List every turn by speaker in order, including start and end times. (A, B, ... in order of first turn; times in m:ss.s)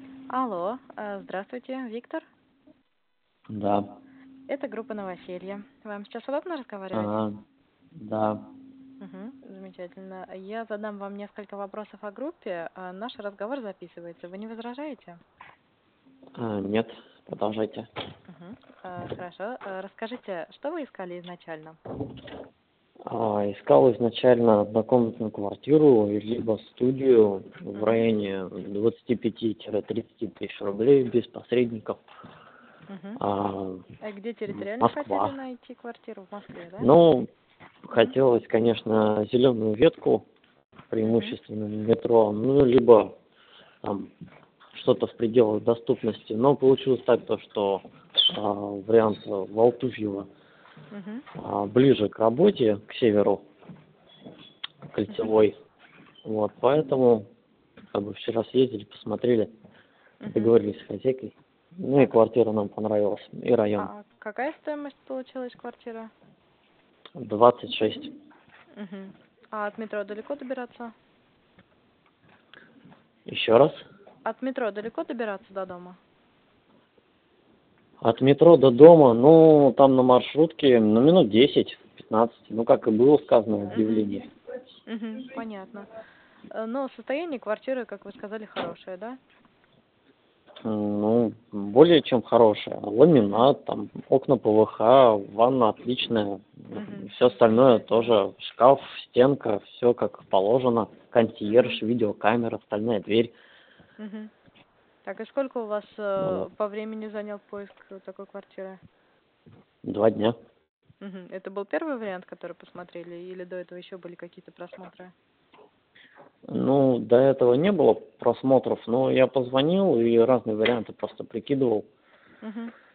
0:00.3-0:02.2 A
0:03.5-0:03.9 B
0:04.5-0:07.1 A
0:06.9-0:07.4 B
0:08.0-0:08.5 B
0:09.0-0:15.2 A
0:16.4-0:17.9 B
0:18.3-0:21.8 A
0:23.0-0:32.0 B
0:27.8-0:28.0 A
0:32.9-0:33.2 A
0:33.2-0:33.9 B
0:34.0-0:36.9 A
0:34.5-0:35.4 B
0:36.8-0:37.3 B
0:37.8-0:40.2 B
0:40.9-0:43.1 B
0:41.0-0:41.4 A
0:43.8-0:44.1 B
0:44.7-0:50.3 B
0:50.9-0:51.3 A
0:51.3-0:53.4 B
0:54.9-0:55.5 B
0:56.2-0:57.2 B
0:57.9-0:59.5 B
1:00.2-1:00.6 A
1:00.3-1:03.9 B
1:03.8-1:06.1 A
1:07.2-1:08.1 B
1:08.7-1:10.9 A
1:13.3-1:13.8 B
1:14.2-1:16.0 A
1:18.0-1:24.3 B
1:23.7-1:24.2 A
1:24.9-1:25.9 A
1:26.5-1:29.2 A
1:30.6-1:43.3 B
1:33.2-1:33.4 A
1:36.7-1:38.1 A
1:41.5-1:41.8 A
1:44.0-1:44.3 A
1:45.0-1:48.8 A
1:46.2-1:46.4 B
1:49.8-1:50.3 B
1:51.0-1:55.1 A
1:56.5-2:01.9 B
2:02.4-2:02.7 A